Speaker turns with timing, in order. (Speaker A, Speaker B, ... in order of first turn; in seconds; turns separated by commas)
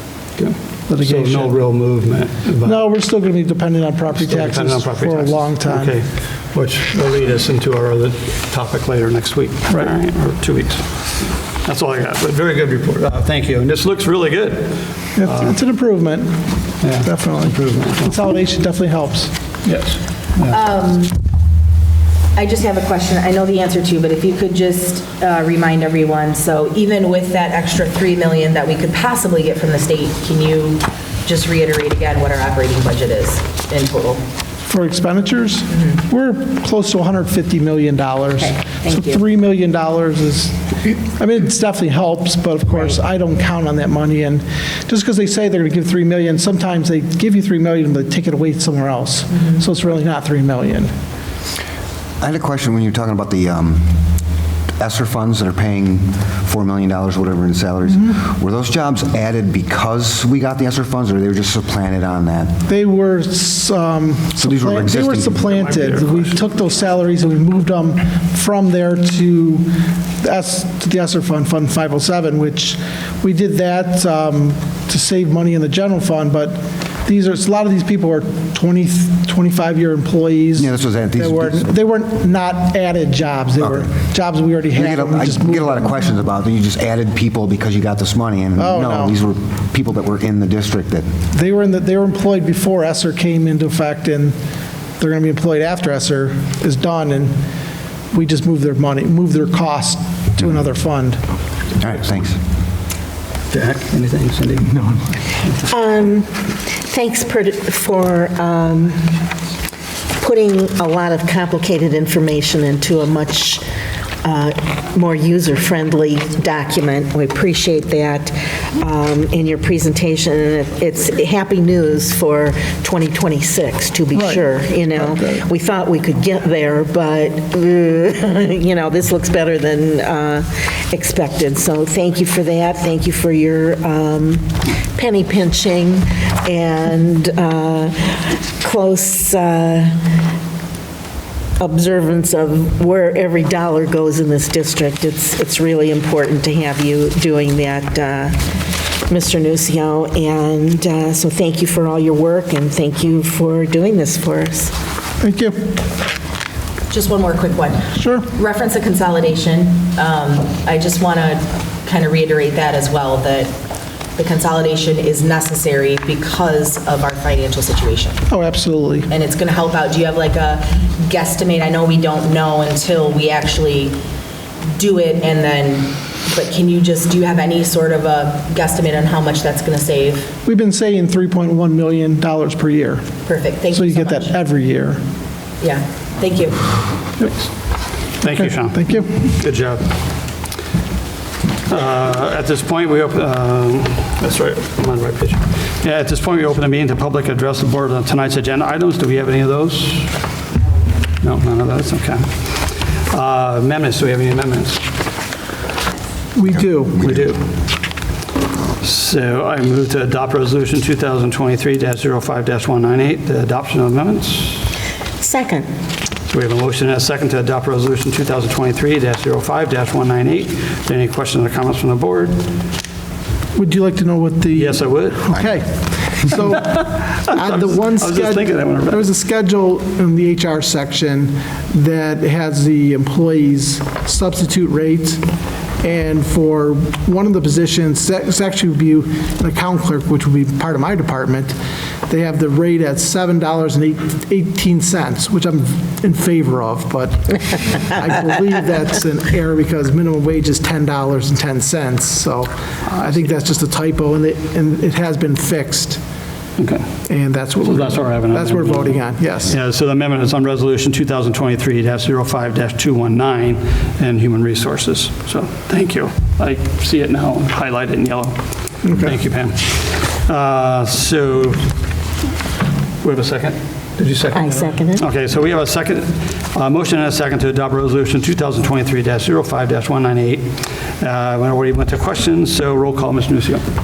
Speaker A: 0.4-2.8, Speaker B: 0.9-1.5, Speaker B: 2.6-6.0, Speaker A: 4.1-11.1, Speaker A: 11.6-15.5, Speaker B: 15.2-16.4, Speaker A: 16.8-18.1, Speaker B: 17.0-19.3, Speaker A: 19.6-20.6, Speaker C: 20.5-21.2, Speaker C: 22.3-34.2, Speaker B: 34.6-50.9, Speaker C: 38.4-39.2, Speaker D: 52.2-54.0, Speaker D: 54.8-62.5, Speaker B: 57.9-58.2, Speaker B: 62.6-69.7, Speaker D: 64.4-65.4, Speaker A: 65.4-66.7, Speaker B: 70.2-85.9, Speaker D: 80.5-81.7, Speaker D: 83.6-83.9, Speaker D: 84.7-91.1, Speaker B: 88.6-89.2, Speaker B: 91.3-94.4, Speaker B: 95.0-97.3, Speaker B: 98.1-101.2, Speaker D: 101.8-102.4, Speaker A: 103.5-105.6, Speaker E: 105.7-109.1, Speaker E: 110.2-113.6, Speaker E: 114.2-139.9, Speaker B: 124.1-125.4, Speaker E: 141.6-148.4, Speaker E: 149.1-154.7, Speaker B: 155.2-155.7, Speaker C: 156.9-163.5, Speaker B: 157.9-158.3, Speaker C: 164.2-168.2, Speaker B: 168.3-169.1, Speaker C: 169.1-174.0, Speaker C: 174.7-180.3, Speaker B: 180.4-183.1, Speaker C: 183.3-184.3, Speaker B: 183.7-185.0, Speaker C: 185.6-186.6, Speaker A: 187.2-187.5, Speaker A: 188.2-189.9, Speaker B: 188.7-189.2, Speaker A: 191.7-200.1, Speaker A: 201.2-204.8, Speaker B: 206.3-207.1, Speaker A: 207.0-207.4, Speaker A: 208.8-214.7, Speaker E: 215.2-215.7, Speaker A: 216.3-222.3, Speaker B: 223.5-235.2, Speaker A: 224.5-225.3, Speaker A: 226.6-229.1, Speaker B: 235.8-241.6, Speaker B: 242.1-256.0, Speaker A: 256.6-256.9, Speaker B: 257.1-259.6, Speaker A: 257.6-271.7, Speaker B: 268.8-269.1, Speaker A: 273.0-283.6, Speaker E: 274.3-275.0